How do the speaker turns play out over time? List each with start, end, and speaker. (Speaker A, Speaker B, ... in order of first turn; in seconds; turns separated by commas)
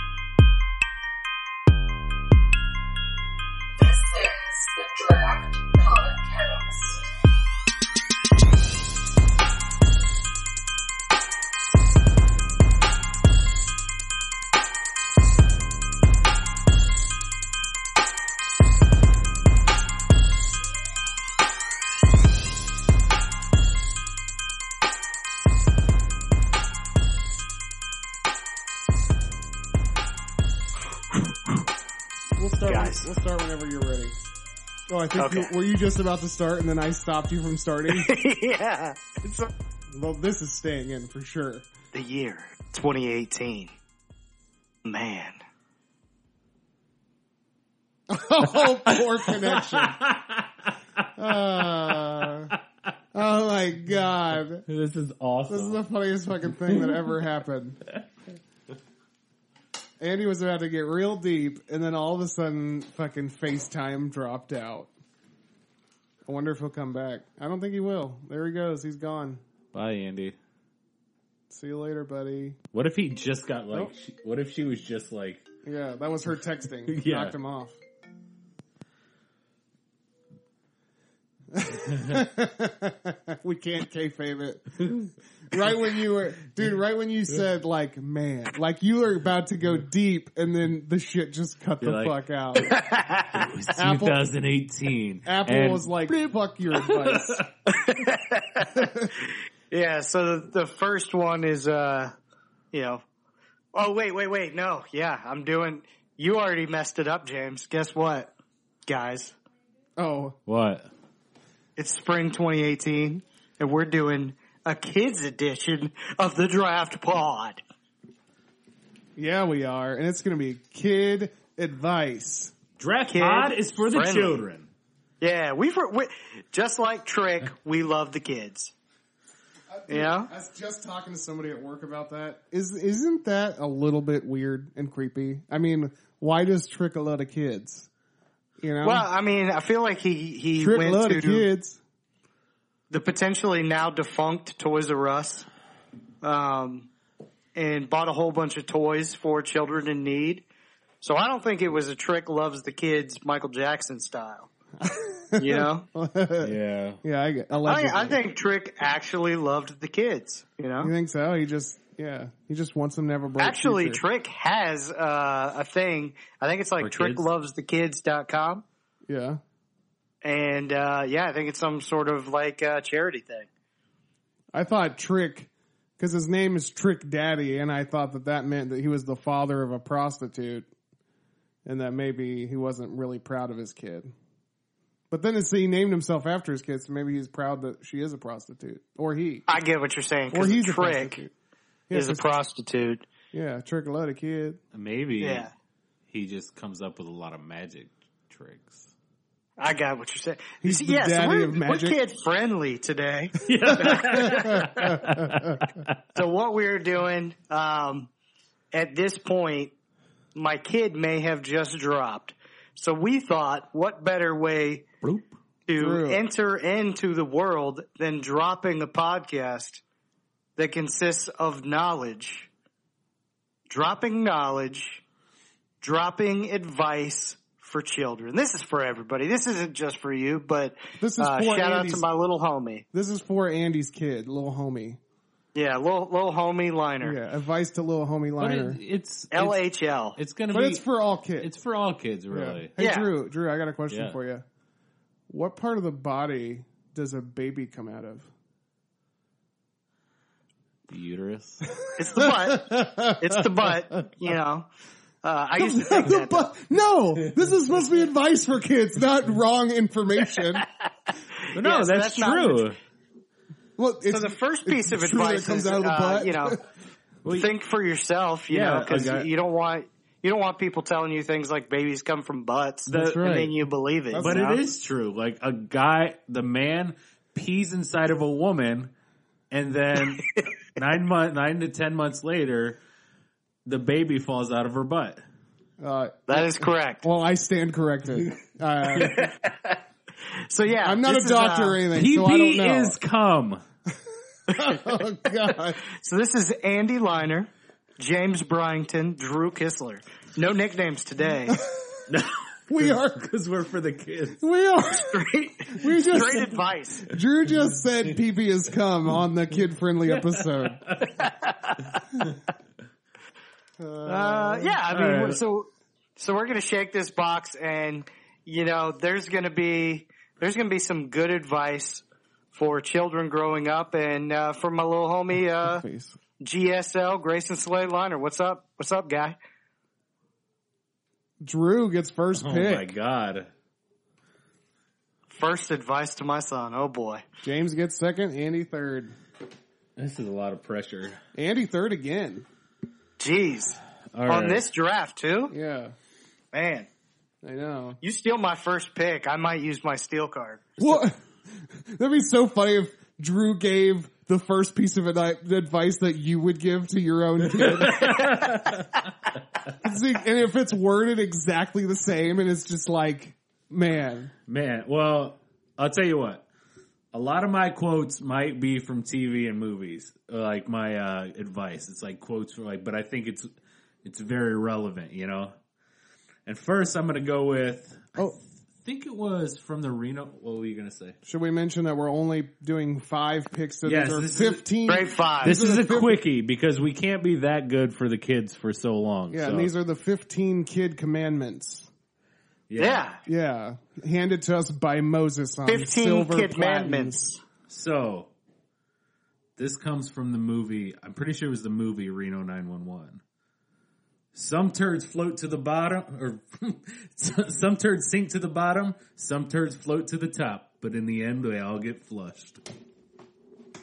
Speaker A: 3.8-7.0, Speaker B: 32.4-34.2, Speaker C: 32.7-33.1, Speaker B: 34.9-38.1, Speaker C: 35.2-35.5, Speaker C: 37.9-39.5, Speaker B: 39.9-41.7, Speaker C: 41.9-43.7, Speaker C: 44.9-45.4, Speaker B: 48.1-50.0, Speaker D: 48.6-52.5, Speaker B: 51.2-52.5, Speaker B: 53.1-54.6, Speaker D: 54.7-55.8, Speaker B: 55.5-57.8, Speaker D: 56.6-57.2, Speaker B: 60.0-64.9, Speaker B: 66.3-69.4, Speaker D: 69.7-70.4, Speaker B: 71.5-72.6, Speaker D: 72.7-75.5, Speaker B: 75.7-77.8, Speaker D: 76.9-77.3, Speaker B: 81.5-92.8, Speaker D: 91.8-92.2, Speaker C: 92.7-93.5, Speaker D: 93.3-96.0, Speaker B: 93.7-94.2, Speaker B: 95.2-97.4, Speaker D: 96.8-97.5, Speaker C: 97.7-102.1, Speaker B: 98.7-99.1, Speaker C: 102.7-103.0, Speaker C: 103.7-108.3, Speaker C: 108.9-109.4, Speaker B: 110.0-110.4, Speaker D: 110.5-110.9, Speaker C: 111.8-117.6, Speaker B: 119.2-122.5, Speaker D: 122.8-124.7, Speaker C: 123.1-124.4, Speaker C: 125.2-128.7, Speaker B: 129.7-137.9, Speaker C: 129.9-130.3, Speaker B: 138.6-139.1, Speaker C: 138.8-141.5, Speaker B: 140.6-141.8, Speaker C: 142.9-145.5, Speaker C: 146.2-146.9, Speaker C: 147.6-150.4, Speaker C: 151.0-154.5, Speaker B: 154.8-158.2, Speaker C: 155.4-155.9, Speaker D: 156.4-157.0, Speaker C: 157.7-160.9, Speaker B: 160.8-164.0, Speaker C: 163.4-168.7, Speaker D: 166.8-167.3, Speaker B: 169.1-169.4, Speaker C: 170.2-173.5, Speaker B: 174.5-180.7, Speaker B: 181.7-184.1, Speaker B: 185.1-189.5, Speaker C: 189.5-191.2, Speaker B: 190.3-191.3, Speaker B: 191.9-192.2, Speaker C: 191.9-193.1, Speaker B: 193.3-194.6, Speaker D: 194.7-195.5, Speaker C: 195.2-195.5, Speaker D: 196.1-198.9, Speaker C: 199.6-204.6, Speaker B: 200.6-202.0, Speaker D: 203.4-205.9, Speaker B: 203.8-205.6, Speaker C: 206.2-208.1, Speaker C: 208.7-209.7, Speaker C: 210.3-214.9, Speaker D: 215.0-215.3, Speaker C: 215.7-219.8, Speaker B: 215.8-216.2, Speaker C: 220.6-222.5, Speaker C: 223.7-225.0, Speaker C: 225.8-232.8, Speaker B: 231.0-232.1, Speaker B: 232.9-235.0, Speaker C: 235.6-237.2, Speaker B: 237.0-238.8, Speaker D: 238.4-239.6, Speaker C: 239.3-240.2, Speaker D: 240.2-240.8, Speaker B: 240.5-241.5, Speaker D: 241.4-242.7, Speaker B: 242.3-244.4, Speaker C: 242.8-243.1, Speaker D: 243.9-244.2, Speaker B: 245.3-248.3, Speaker D: 250.9-251.7, Speaker B: 251.8-253.7, Speaker C: 252.0-254.7, Speaker C: 255.2-256.4, Speaker B: 255.6-260.7, Speaker C: 261.4-262.7, Speaker D: 261.5-262.8, Speaker B: 263.8-266.6, Speaker C: 264.1-266.6, Speaker D: 267.2-267.5, Speaker C: 267.3-274.6, Speaker D: 268.5-269.3, Speaker D: 272.9-273.5, Speaker B: 272.9-273.5, Speaker B: 274.1-274.6, Speaker D: 274.1-278.9, Speaker D: 279.5-282.8, Speaker D: 283.7-285.2, Speaker B: 285.8-289.4, Speaker C: 286.3-287.0, Speaker C: 289.0-289.8, Speaker C: 290.4-291.8, Speaker B: 290.8-293.0, Speaker D: 291.9-293.6, Speaker B: 294.5-295.8, Speaker C: 295.8-301.6, Speaker B: 301.5-302.1, Speaker D: 302.1-304.4, Speaker B: 302.7-303.3, Speaker B: 304.4-310.9, Speaker C: 305.1-307.1, Speaker C: 311.2-311.8, Speaker B: 313.8-314.8, Speaker C: 314.1-325.8, Speaker D: 314.9-315.4, Speaker B: 325.6-326.2, Speaker C: 326.4-329.4, Speaker B: 331.4-332.9, Speaker D: 332.4-333.5, Speaker C: 335.3-337.2, Speaker B: 337.4-339.1, Speaker D: 340.0-341.2, Speaker B: 341.4-342.5, Speaker C: 343.2-345.5, Speaker D: 344.1-344.7, Speaker B: 345.5-345.9, Speaker C: 346.5-346.9, Speaker B: 347.4-348.0, Speaker C: 348.0-350.7, Speaker B: 350.8-358.5, Speaker D: 357.6-359.1, Speaker B: 359.8-364.3, Speaker D: 364.5-366.4, Speaker D: 367.1-373.5, Speaker D: 374.0-375.5, Speaker D: 376.5-381.2, Speaker B: 381.2-386.2, Speaker D: 383.9-384.6, Speaker C: 384.9-385.6, Speaker D: 385.4-389.7, Speaker B: 389.3-391.9, Speaker D: 392.7-393.1, Speaker C: 392.8-393.2, Speaker B: 393.3-397.4, Speaker C: 395.7-397.3, Speaker D: 397.7-398.3, Speaker D: 399.6-403.2, Speaker D: 404.3-412.6